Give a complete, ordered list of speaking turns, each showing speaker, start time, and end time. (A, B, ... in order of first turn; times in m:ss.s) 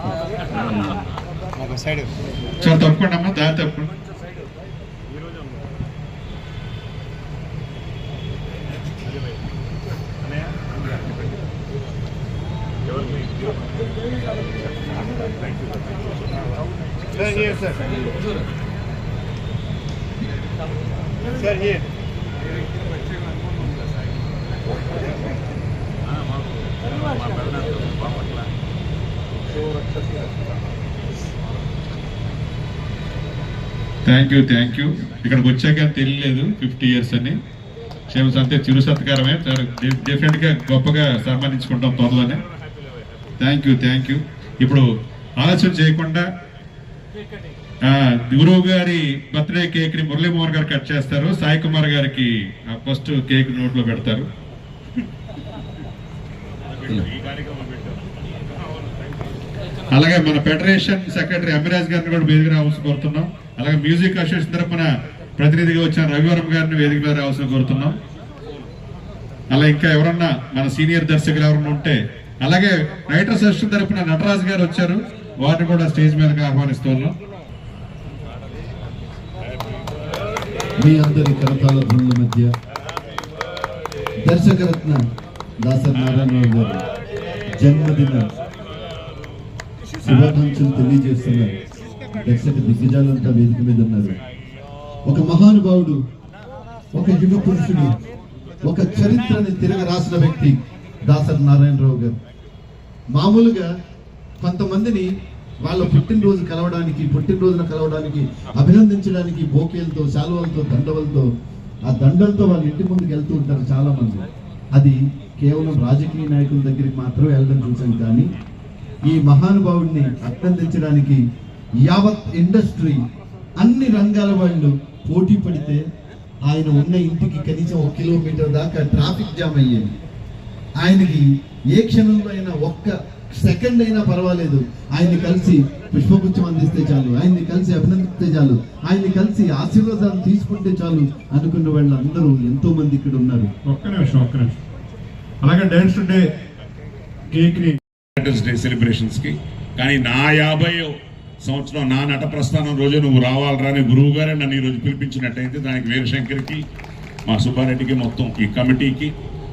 0:02.6-0:03.9 A
0:26.1-0:28.5 B
0:34.0-0:37.4 A
0:38.1-0:42.4 A
0:43.4-0:44.8 A
0:45.4-0:46.3 A
0:47.8-0:54.3 A
0:56.7-0:58.0 B
0:59.9-1:07.9 A
1:09.5-1:17.2 A
1:20.8-1:22.5 C
1:24.2-1:25.0 C
1:25.6-1:26.8 C
1:27.6-1:28.3 C
1:30.0-1:31.6 C
1:32.2-1:34.2 C
1:35.1-1:36.0 C
1:36.9-1:38.0 C
1:38.6-1:42.2 C
1:43.1-1:43.7 C
1:44.4-1:45.1 C
1:45.6-1:51.3 C
1:51.9-1:58.3 C
1:59.0-2:01.2 C
2:01.8-2:03.0 C
2:03.6-2:05.8 C
2:06.4-2:09.9 C
2:10.8-2:23.5 C
2:23.6-2:24.6 A
2:25.4-2:26.2 A
2:27.3-2:27.8 A
2:28.2-2:36.6 B
2:37.3-2:39.1 B